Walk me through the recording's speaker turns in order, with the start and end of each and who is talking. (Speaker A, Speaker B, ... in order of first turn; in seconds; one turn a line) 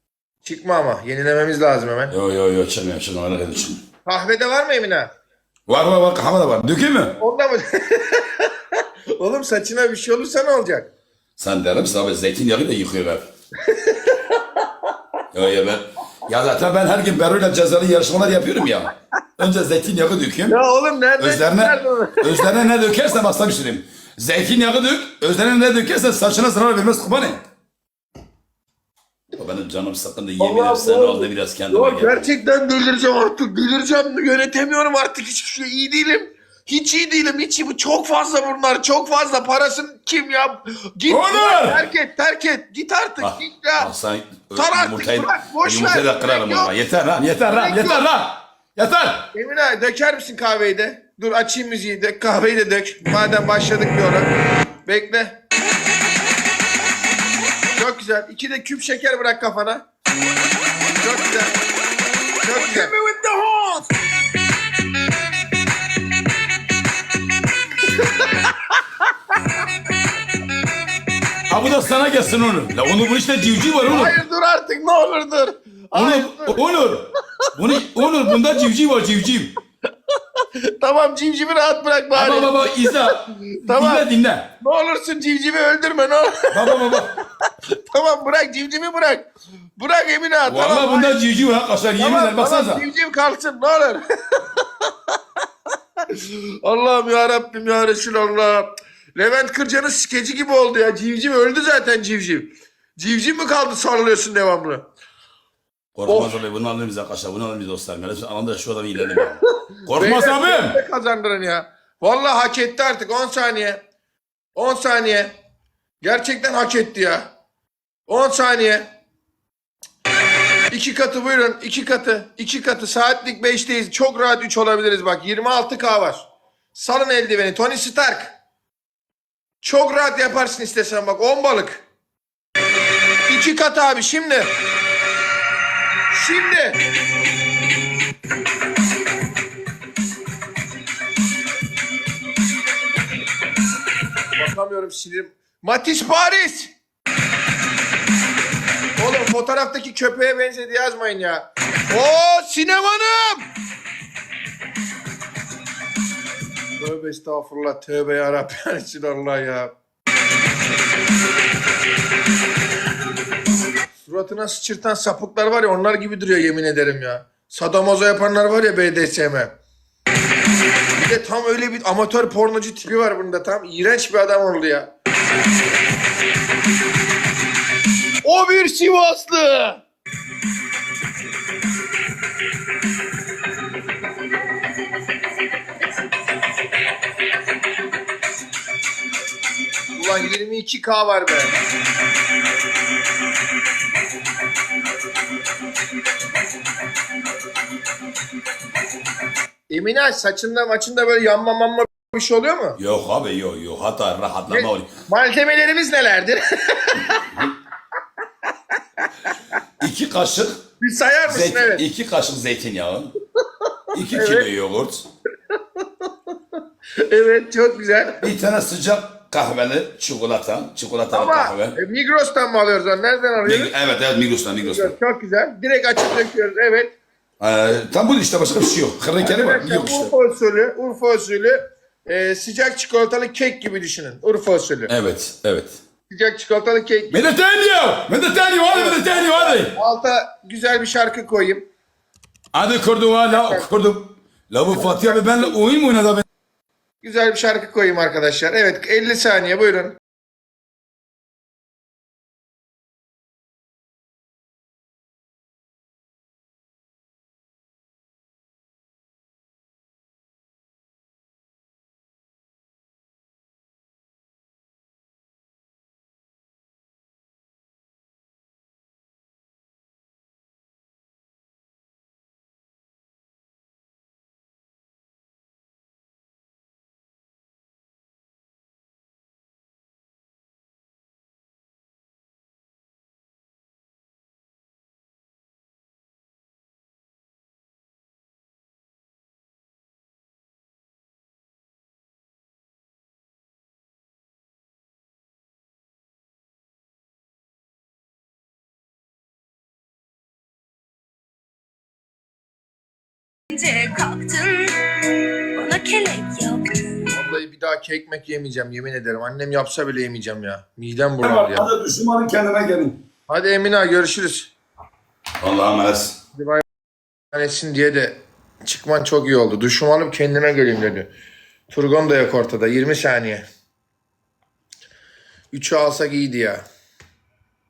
Speaker A: 0.5-2.1
Speaker B: 2.1-3.8
Speaker A: 4.1-5.1
Speaker B: 5.7-7.2
Speaker A: 7.2-8.5
Speaker A: 9.2-10.9
Speaker B: 11.4-13.3
Speaker A: 13.7-14.3
Speaker B: 15.3-20.6
Speaker A: 20.5-22.5
Speaker B: 21.2-27.4
Speaker B: 29.4-32.3
Speaker A: 30.4-43.9
Speaker B: 41.1-41.8
Speaker B: 43.2-49.3
Speaker A: 44.5-46.7
Speaker A: 47.5-48.1
Speaker A: 49.3-54.3
Speaker A: 54.9-55.4
Speaker A: 57.8-59.8
Speaker A: 61.0-61.5
Speaker A: 62.4-62.9
Speaker A: 68.0-68.5
Speaker B: 71.5-74.2
Speaker A: 73.9-76.6
Speaker B: 76.0-79.5
Speaker A: 80.7-84.1
Speaker B: 82.2-84.5
Speaker A: 84.6-87.0
Speaker B: 86.5-87.2
Speaker A: 87.7-91.2
Speaker B: 90.5-92.8
Speaker A: 92.0-94.0
Speaker A: 96.1-104.9
Speaker B: 106.0-110.8
Speaker A: 106.1-106.4
Speaker A: 109.9-113.8
Speaker A: 114.6-115.3
Speaker A: 116.0-117.3
Speaker A: 118.1-118.9
Speaker A: 120.7-128.4
Speaker A: 129.6-131.8
Speaker A: 133.3-134.5
Speaker A: 136.1-136.8
Speaker A: 144.4-146.7
Speaker A: 149.0-153.5
Speaker A: 156.8-159.7
Speaker A: 164.1-169.5
Speaker A: 170.9-174.9
Speaker A: 178.2-179.8
Speaker A: 189.9-191.5
Speaker A: 199.7-202.8
Speaker B: 202.8-204.9
Speaker A: 204.5-207.4
Speaker B: 209.8-210.7
Speaker A: 210.8-211.8
Speaker B: 211.3-213.1
Speaker B: 213.9-215.1
Speaker A: 214.1-214.5
Speaker A: 217.0-218.2
Speaker B: 218.2-221.8
Speaker A: 221.1-223.7
Speaker B: 223.4-225.0
Speaker A: 224.6-226.9
Speaker B: 227.4-230.1
Speaker A: 229.2-234.9
Speaker B: 234.9-235.8
Speaker A: 236.1-237.2
Speaker B: 237.1-239.8
Speaker A: 238.7-241.7
Speaker B: 242.5-246.2
Speaker A: 243.3-243.7
Speaker A: 244.8-245.5
Speaker A: 247.0-250.0
Speaker C: 303.5-304.8
Speaker C: 305.6-307.1
Speaker A: 307.1-311.7
Speaker B: 311.2-313.0
Speaker A: 313.3-314.5
Speaker B: 315.4-316.2
Speaker A: 316.4-316.6
Speaker A: 317.3-321.1
Speaker A: 321.7-323.4
Speaker A: 325.5-326.6